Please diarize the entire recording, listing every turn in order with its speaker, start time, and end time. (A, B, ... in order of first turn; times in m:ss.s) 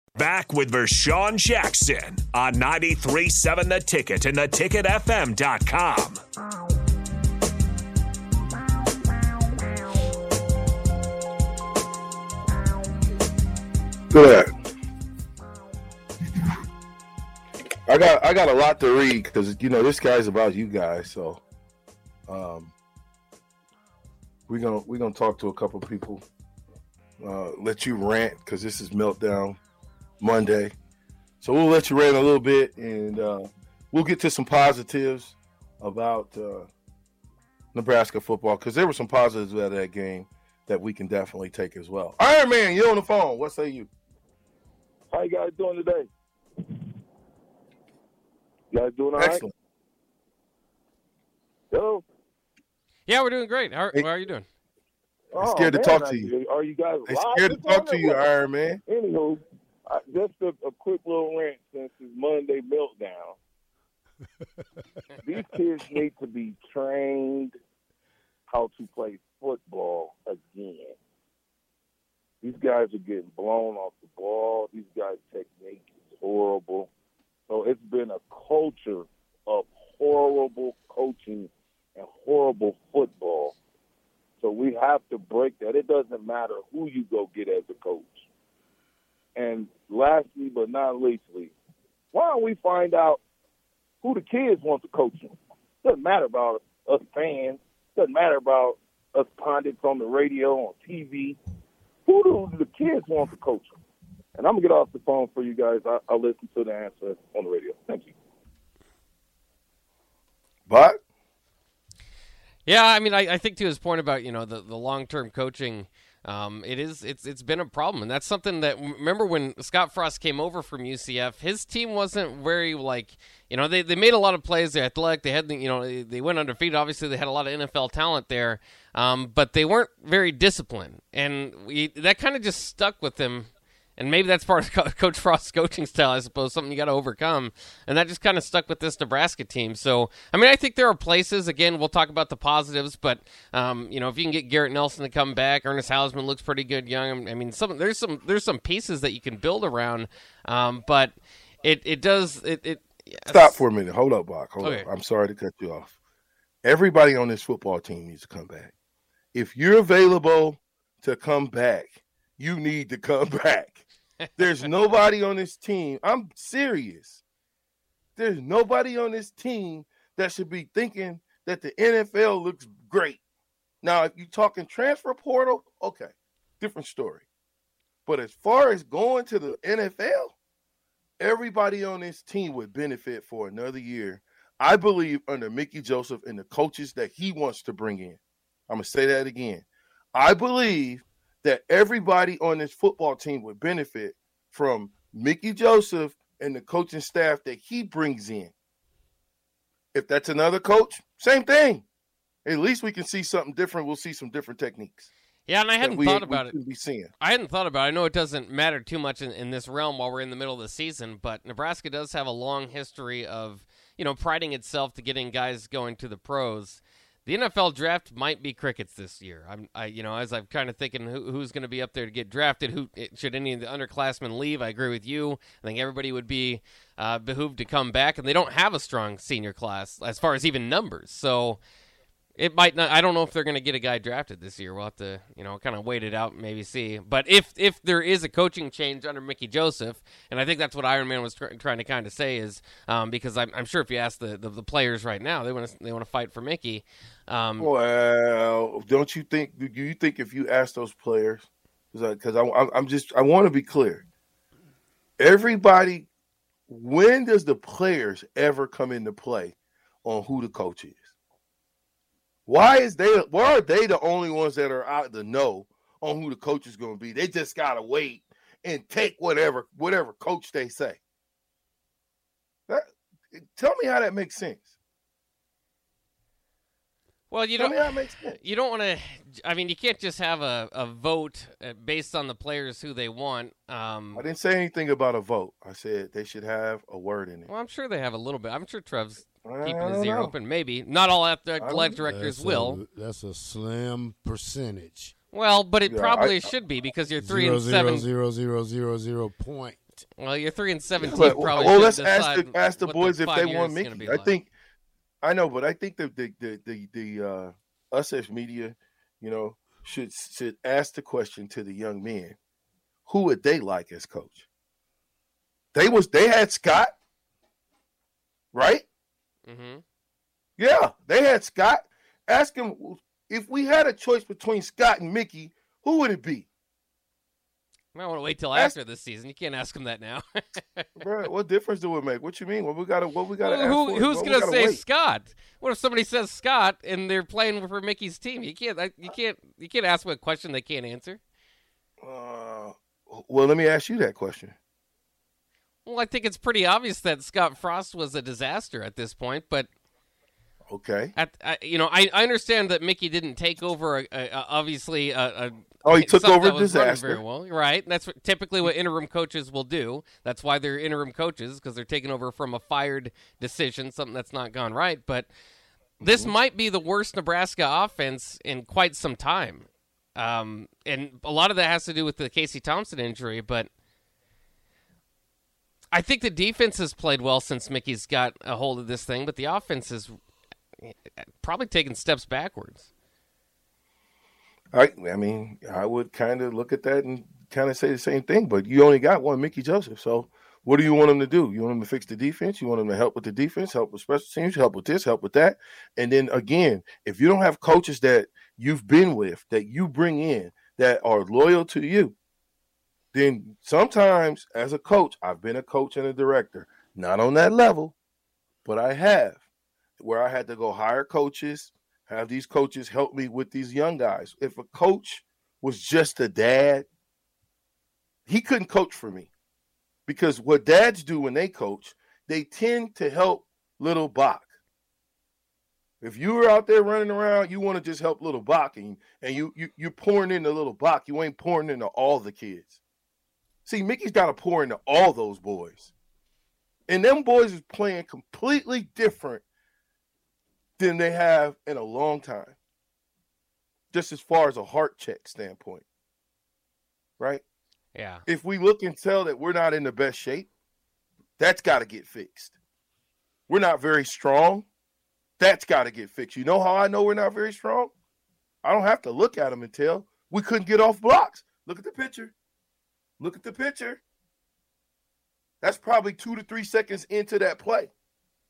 0:00.2-0:06.2 A
0:14.1-0:14.5 B
0:17.9-0:21.4 B
0:22.3-0:22.7 B
0:24.5-0:26.2 B
0:27.2-0:29.6 B
0:30.2-0:30.7 B
0:31.4-0:36.7 B
0:37.7-0:43.9 B
0:45.1-0:46.1 C
0:48.7-0:49.5 C
0:49.2-0:49.5 B
0:51.7-0:52.0 C
0:53.1-0:54.5 D
0:55.3-0:58.3 C
0:55.4-0:56.3 B
0:57.1-0:58.8 B
0:58.9-1:03.4 C
1:05.2-1:07.6 C
1:08.5-1:11.0 C
1:12.4-1:16.9 C
1:17.5-1:23.6 C
1:24.4-1:28.2 C
1:29.4-1:31.5 C
1:32.1-1:33.2 C
1:34.0-1:41.4 C
1:42.1-1:43.8 C
1:44.4-1:48.1 C
1:50.7-1:51.0 B
1:52.7-2:33.6 D
2:33.3-2:35.9 B
2:36.6-2:38.7 B
2:39.3-2:43.8 B
2:44.4-2:47.2 B
2:48.2-2:53.2 B
2:53.8-2:57.2 B
2:58.1-3:00.3 B
3:01.2-3:18.5 B
3:19.9-3:21.8 B
3:22.4-3:25.1 B
3:25.5-3:26.6 D
3:25.8-3:27.1 B
3:27.2-3:51.6 D
3:52.4-4:07.7 D
4:07.6-4:14.0 B
4:15.2-4:16.1 B
4:16.7-4:21.1 B
4:22.5-4:31.0 B
4:32.7-4:34.7 B
4:37.3-4:44.2 D
4:37.6-4:38.4 B
4:44.1-4:47.5 B
4:47.5-4:52.8 D
4:49.4-4:50.3 B
4:51.6-4:52.0 B
4:52.1-4:55.1 E
4:55.3-4:58.1 D
4:55.8-4:56.5 B
4:57.2-4:59.8 E
5:00.2-5:04.3 D
5:01.0-5:04.5 B
5:05.2-5:12.4 B
5:13.1-5:14.5 B
5:15.7-5:16.9 B
5:18.5-5:18.9 B
5:19.4-5:19.8 D
5:20.6-5:26.5 B
5:27.9-5:30.9 D
5:31.0-5:34.8 B
5:33.4-5:41.2 D
5:42.0-5:44.6 B
5:45.9-5:49.7 D
5:50.7-5:51.1 B
5:51.2-6:05.3 D
5:55.8-5:57.2 B
6:06.0-6:13.7 D
6:06.0-6:06.3 B
6:15.9-6:20.1 D
6:20.8-6:22.9 D
6:24.7-6:42.1 B
6:43.1-6:47.9 B
6:48.6-6:49.4 B
6:50.0-6:56.9 B
6:58.3-6:59.3 B
7:00.1-7:04.5 B
7:06.0-7:12.8 B
7:13.6-7:15.9 B
7:16.9-7:19.4 B
7:20.8-7:22.6 B
7:23.9-7:25.8 B
7:27.2-7:27.4 B
7:27.9-7:28.2 D
7:28.2-7:30.5 B
7:31.4-7:32.5 B
7:33.5-7:34.7 B
7:35.4-7:37.9 B
7:38.6-7:42.3 B
7:43.2-7:44.0 B
7:45.6-7:47.9 B